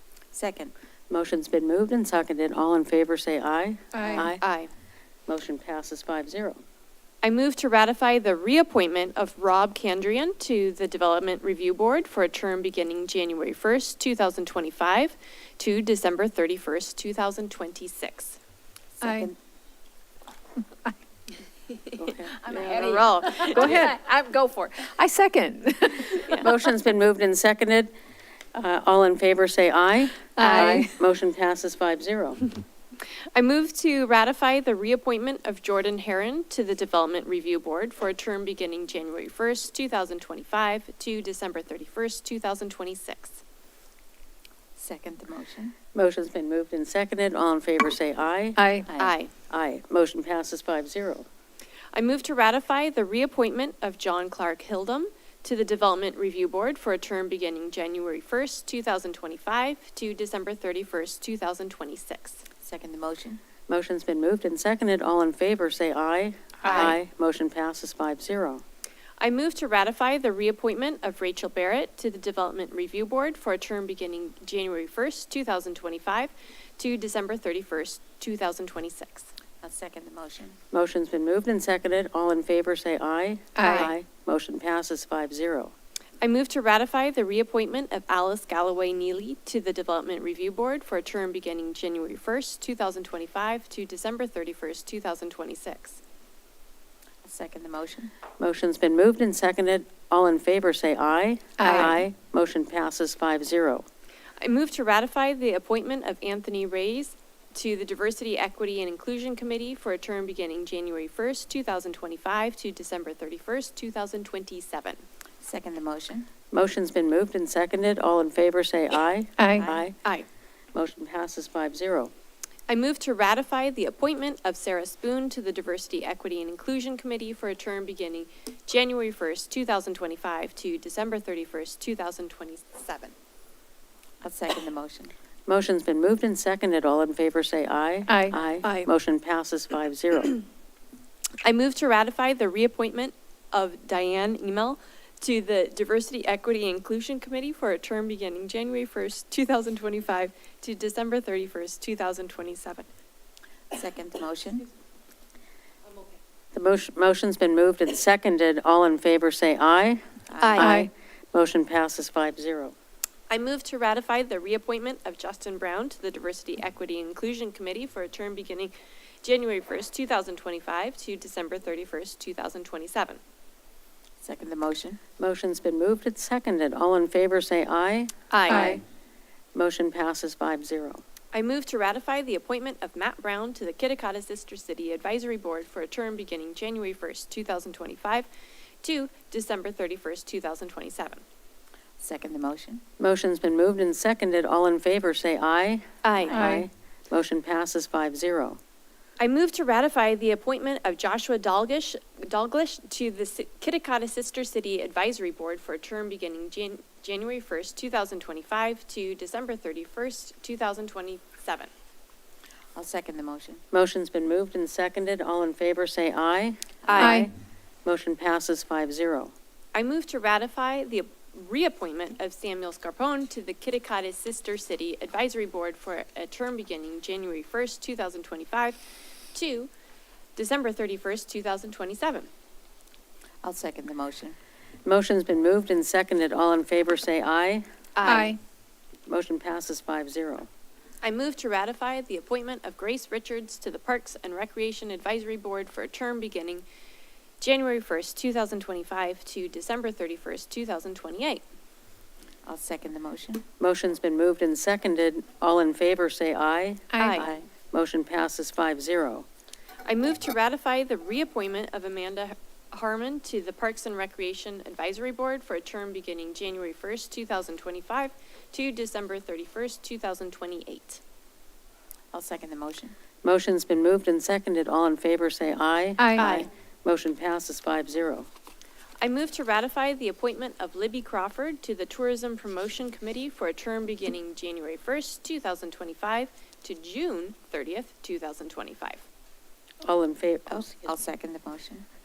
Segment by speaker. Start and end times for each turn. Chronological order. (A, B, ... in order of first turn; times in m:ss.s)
0:00.3-0:00.7 A
0:01.1-0:04.4 B
0:03.9-0:04.3 C
0:04.1-0:04.7 D
0:05.3-0:06.6 B
0:07.2-0:18.4 D
0:19.0-0:19.3 C
0:19.0-0:19.3 A
0:22.0-0:23.0 B
0:22.4-0:24.0 D
0:22.6-0:26.5 C
0:26.1-0:26.4 D
0:26.4-0:27.9 B
0:28.5-0:32.4 B
0:30.4-0:30.9 C
0:33.3-0:43.4 D
0:44.8-0:45.7 A
0:45.9-0:48.6 B
0:48.6-0:48.9 C
0:49.0-0:49.3 D
0:49.5-0:51.3 B
0:51.9-1:02.4 D
1:02.6-1:03.4 A
1:03.7-1:08.6 B
1:06.6-1:07.0 D
1:09.2-1:19.3 D
1:19.6-1:20.6 A
1:20.7-1:25.7 B
1:23.6-1:23.9 C
1:23.6-1:23.9 D
1:26.2-1:36.0 D
1:37.2-1:38.1 A
1:38.4-1:43.8 B
1:41.6-1:42.0 C
1:41.6-1:42.0 D
1:44.4-1:55.0 D
1:55.4-1:56.3 A
1:56.5-1:59.9 B
1:59.4-1:59.6 C
1:59.6-1:59.8 A
2:00.7-2:02.1 B
2:02.7-2:13.1 D
2:14.2-2:15.1 A
2:15.5-2:20.4 B
2:18.1-2:18.9 C
2:21.4-2:32.9 D
2:33.7-2:34.6 A
2:36.5-2:40.0 B
2:40.3-2:40.7 A
2:40.4-2:40.8 D
2:40.5-2:42.7 B
2:40.6-2:40.9 C
2:43.3-2:53.2 D
2:54.2-2:55.0 A
2:55.2-2:58.8 B
2:58.3-2:58.8 D
2:58.5-2:58.8 C
2:59.5-3:01.0 B
3:01.3-3:08.3 D
3:08.8-3:11.2 D
3:12.0-3:12.8 A
3:13.0-3:18.6 B
3:16.0-3:16.6 D
3:16.3-3:16.6 C
3:19.2-3:31.7 D
3:32.7-3:33.6 A
3:33.7-3:37.3 B
3:36.8-3:37.3 D
3:36.9-3:37.1 A
3:37.0-3:37.3 C
3:37.8-3:39.3 B
3:39.7-3:48.8 D
3:49.3-3:49.7 D
3:50.4-3:52.3 D
3:53.4-3:54.4 A
3:54.8-3:57.6 B
3:58.0-3:58.4 D
3:58.0-3:58.4 C
3:59.1-4:00.5 B
4:01.0-4:06.6 D
4:07.4-4:11.4 D
4:12.4-4:13.4 A
4:13.6-4:19.2 B
4:16.9-4:17.3 C
4:16.9-4:17.3 D
4:19.8-4:31.0 D
4:32.1-4:32.9 A
4:33.2-4:38.3 B
4:36.0-4:36.3 C
4:36.2-4:36.5 D
4:39.0-4:49.0 D
4:49.8-4:50.9 B
4:50.5-4:51.8 A